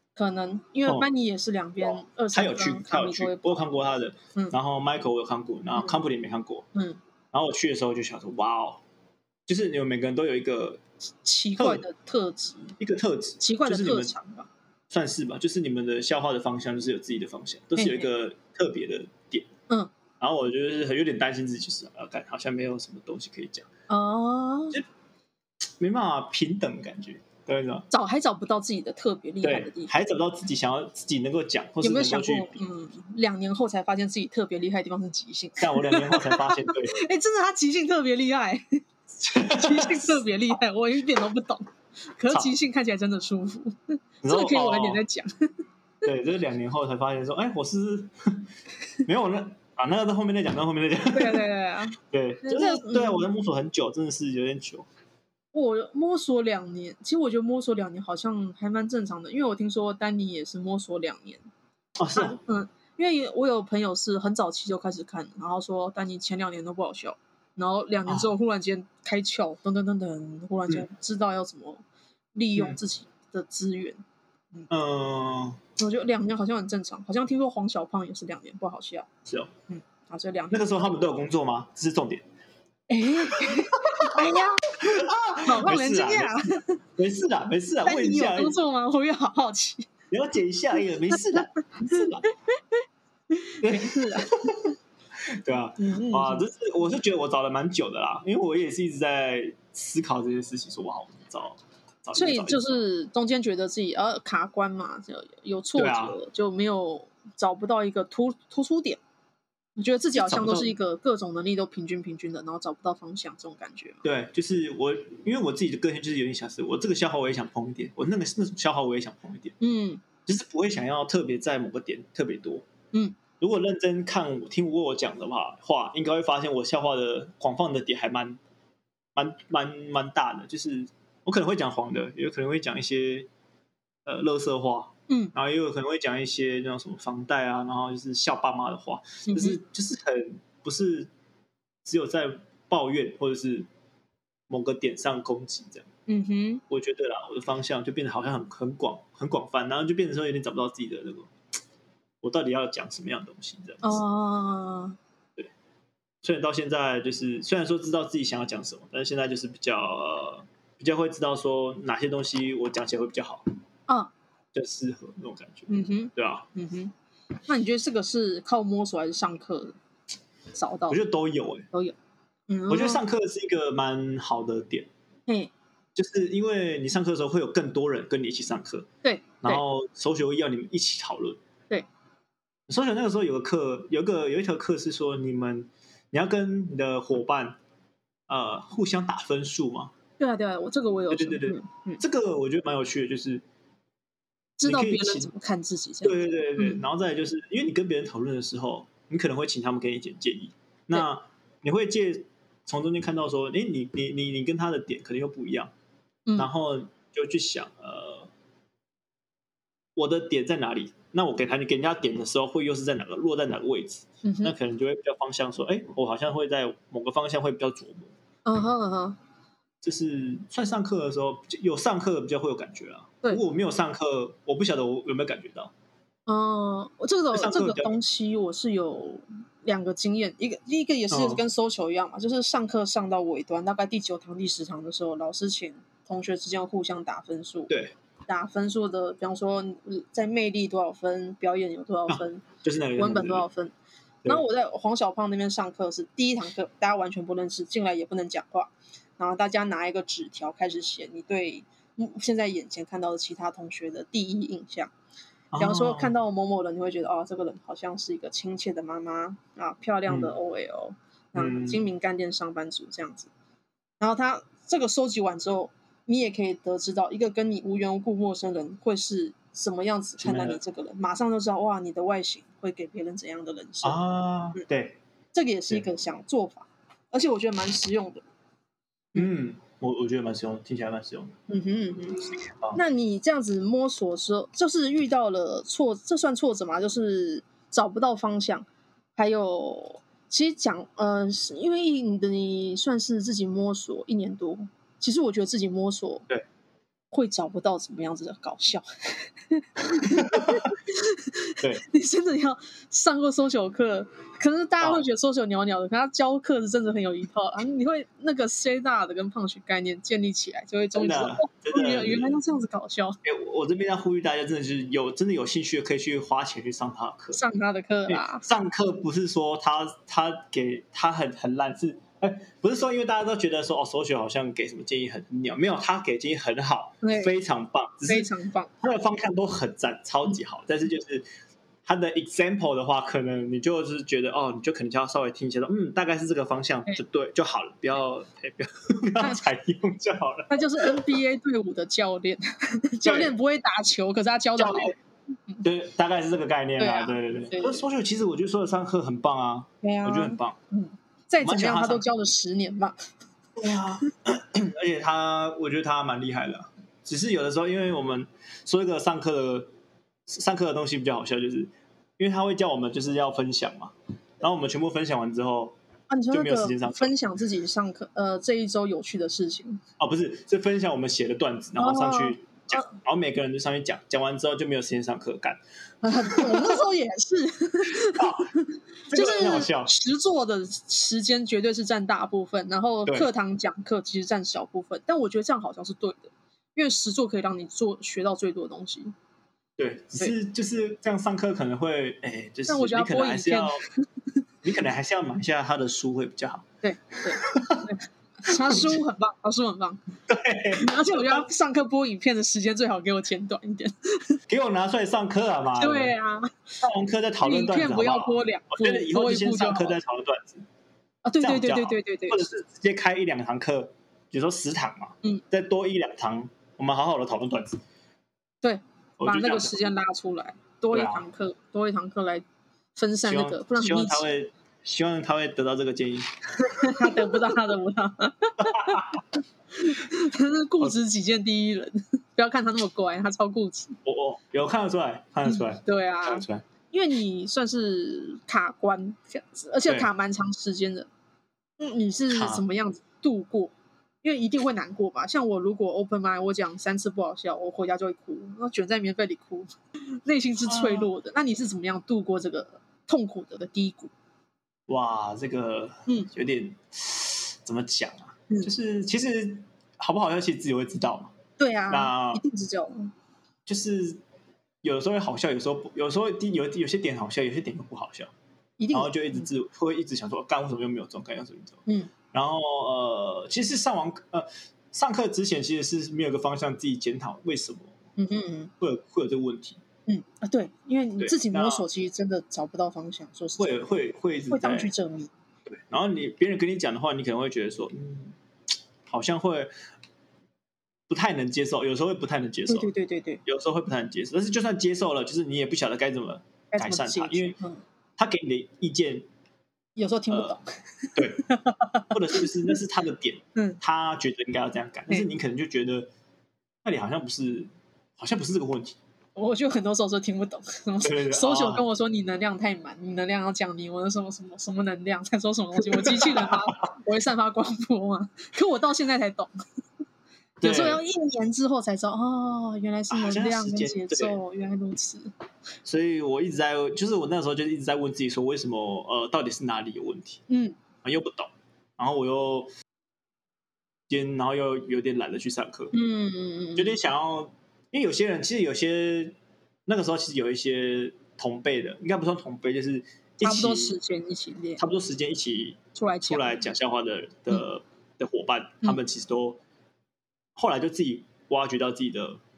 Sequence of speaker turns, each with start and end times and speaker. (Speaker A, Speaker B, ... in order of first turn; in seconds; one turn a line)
Speaker A: 0.1-3.7
Speaker B: 1.8-6.7
Speaker B: 7.3-8.8
Speaker B: 9.5-10.8
Speaker A: 11.2-12.7
Speaker B: 11.6-11.8
Speaker B: 12.8-14.1
Speaker A: 13.4-14.5
Speaker B: 14.9-19.5
Speaker A: 17.8-18.1
Speaker B: 20.2-23.6
Speaker A: 23.9-24.8
Speaker B: 25.8-27.9
Speaker A: 27.9-29.9
Speaker B: 29.4-32.6
Speaker A: 31.8-45.5
Speaker B: 35.6-37.0
Speaker B: 39.2-40.2
Speaker B: 44.2-45.0
Speaker B: 46.0-48.5
Speaker B: 49.0-51.5
Speaker A: 51.1-53.2
Speaker B: 52.0-54.9
Speaker A: 55.5-61.4
Speaker B: 62.0-62.4
Speaker A: 62.1-71.8
Speaker A: 72.3-74.0
Speaker B: 74.7-75.6
Speaker A: 75.8-79.1
Speaker B: 79.2-79.5
Speaker A: 79.7-80.9
Speaker B: 80.5-82.2
Speaker A: 82.9-86.8
Speaker B: 83.4-84.3
Speaker B: 84.8-86.4
Speaker B: 87.0-88.6
Speaker A: 87.8-89.9
Speaker B: 90.1-92.2
Speaker A: 91.1-92.1
Speaker A: 93.3-94.7
Speaker B: 93.6-94.7
Speaker B: 95.2-102.6
Speaker A: 95.8-96.5
Speaker A: 102.1-109.0
Speaker B: 105.8-106.2
Speaker A: 109.8-114.0
Speaker B: 110.1-110.7
Speaker B: 114.0-119.6
Speaker A: 119.6-120.0
Speaker B: 120.2-122.6
Speaker B: 123.4-128.4
Speaker B: 129.1-133.3
Speaker B: 134.1-141.1
Speaker A: 135.1-135.3
Speaker A: 139.3-139.6
Speaker B: 141.8-143.7
Speaker B: 144.5-145.9
Speaker A: 146.1-146.6
Speaker B: 146.7-151.3
Speaker B: 152.2-154.0
Speaker A: 153.8-155.0
Speaker B: 156.2-163.4
Speaker B: 164.5-166.4
Speaker A: 165.7-166.9
Speaker A: 167.4-169.8
Speaker A: 170.5-171.0
Speaker B: 170.9-171.7
Speaker A: 172.5-173.0
Speaker B: 172.7-174.9
Speaker A: 175.3-175.5
Speaker B: 175.9-178.9
Speaker A: 179.0-179.6
Speaker B: 179.4-181.4
Speaker B: 182.7-187.6
Speaker B: 188.3-189.9
Speaker A: 190.2-192.0
Speaker B: 191.1-193.4
Speaker A: 194.6-196.8
Speaker B: 194.6-195.3
Speaker B: 196.0-205.7
Speaker B: 206.4-208.3
Speaker B: 209.9-218.1
Speaker A: 214.2-214.5
Speaker A: 218.4-219.2
Speaker B: 219.8-225.7
Speaker A: 226.3-237.7
Speaker B: 227.3-227.9
Speaker B: 231.1-231.4
Speaker B: 237.7-237.9
Speaker A: 238.3-242.4
Speaker B: 242.1-243.4
Speaker A: 242.9-243.7
Speaker A: 244.2-254.9
Speaker B: 255.5-256.1
Speaker A: 255.6-263.3
Speaker B: 260.1-260.4
Speaker B: 261.4-261.8
Speaker A: 264.0-274.6
Speaker B: 270.2-270.6
Speaker B: 273.8-275.0
Speaker A: 275.3-278.2
Speaker B: 279.1-281.3
Speaker A: 281.5-296.3
Speaker A: 297.1-313.2
Speaker B: 299.9-300.6
Speaker B: 310.9-312.4
Speaker B: 313.2-317.4
Speaker A: 317.3-318.4
Speaker B: 318.1-328.3
Speaker A: 327.0-327.3
Speaker A: 328.1-328.7
Speaker B: 328.8-331.2
Speaker B: 331.9-341.0
Speaker A: 340.5-344.9
Speaker B: 343.0-343.4
Speaker B: 344.6-344.9
Speaker B: 345.6-350.6
Speaker A: 346.8-347.9
Speaker A: 349.8-353.0
Speaker B: 351.4-352.1
Speaker B: 353.6-359.7
Speaker B: 360.3-365.8
Speaker A: 366.1-369.8
Speaker B: 366.3-367.1
Speaker B: 370.0-375.6
Speaker A: 371.8-372.9
Speaker A: 376.0-389.1
Speaker B: 376.2-376.8
Speaker B: 377.9-378.5
Speaker B: 379.1-379.9
Speaker B: 389.8-393.8
Speaker A: 392.7-394.1
Speaker B: 394.6-396.7
Speaker A: 396.8-400.0
Speaker B: 397.3-397.9
Speaker B: 398.5-399.0
Speaker B: 400.3-401.4
Speaker A: 400.7-404.4
Speaker B: 404.5-406.1
Speaker A: 405.8-406.8
Speaker B: 406.8-410.6
Speaker A: 407.4-410.0
Speaker A: 411.2-412.5
Speaker B: 411.4-417.8
Speaker A: 418.6-422.4
Speaker B: 419.2-419.8
Speaker B: 420.9-421.2
Speaker A: 422.9-424.2
Speaker B: 423.2-427.5
Speaker A: 426.7-429.1
Speaker B: 428.6-429.2
Speaker A: 429.7-434.0
Speaker B: 434.0-436.6
Speaker A: 435.4-441.1
Speaker A: 441.8-449.7
Speaker B: 442.3-442.6
Speaker A: 450.2-454.1
Speaker B: 450.6-451.1
Speaker B: 454.9-461.3
Speaker A: 461.6-463.1
Speaker B: 461.9-462.4
Speaker B: 463.6-464.2
Speaker B: 464.8-468.3
Speaker A: 468.8-469.5
Speaker B: 468.9-471.8
Speaker B: 472.3-477.9
Speaker A: 478.2-478.7
Speaker B: 478.8-479.8
Speaker A: 480.1-483.9
Speaker B: 481.2-481.9
Speaker B: 483.6-484.9
Speaker A: 484.5-485.3
Speaker B: 485.7-488.4
Speaker B: 489.1-489.7
Speaker B: 491.1-492.9
Speaker A: 492.7-493.4
Speaker B: 493.4-497.6
Speaker A: 496.7-497.8
Speaker B: 498.2-499.2
Speaker A: 500.0-502.7
Speaker B: 500.3-500.6
Speaker B: 501.1-501.4
Speaker B: 502.1-506.1
Speaker B: 506.8-509.0
Speaker A: 509.4-519.5
Speaker B: 511.0-511.9
Speaker B: 515.9-516.7
Speaker B: 520.6-521.0
Speaker A: 520.6-525.3
Speaker B: 523.1-524.4
Speaker B: 525.9-530.4
Speaker A: 530.5-530.8
Speaker B: 531.0-532.7
Speaker B: 534.1-535.9
Speaker A: 535.9-537.0
Speaker B: 536.8-539.4
Speaker B: 539.9-544.0
Speaker A: 543.4-544.8
Speaker B: 544.8-549.6
Speaker A: 545.9-546.6
Speaker B: 550.6-552.4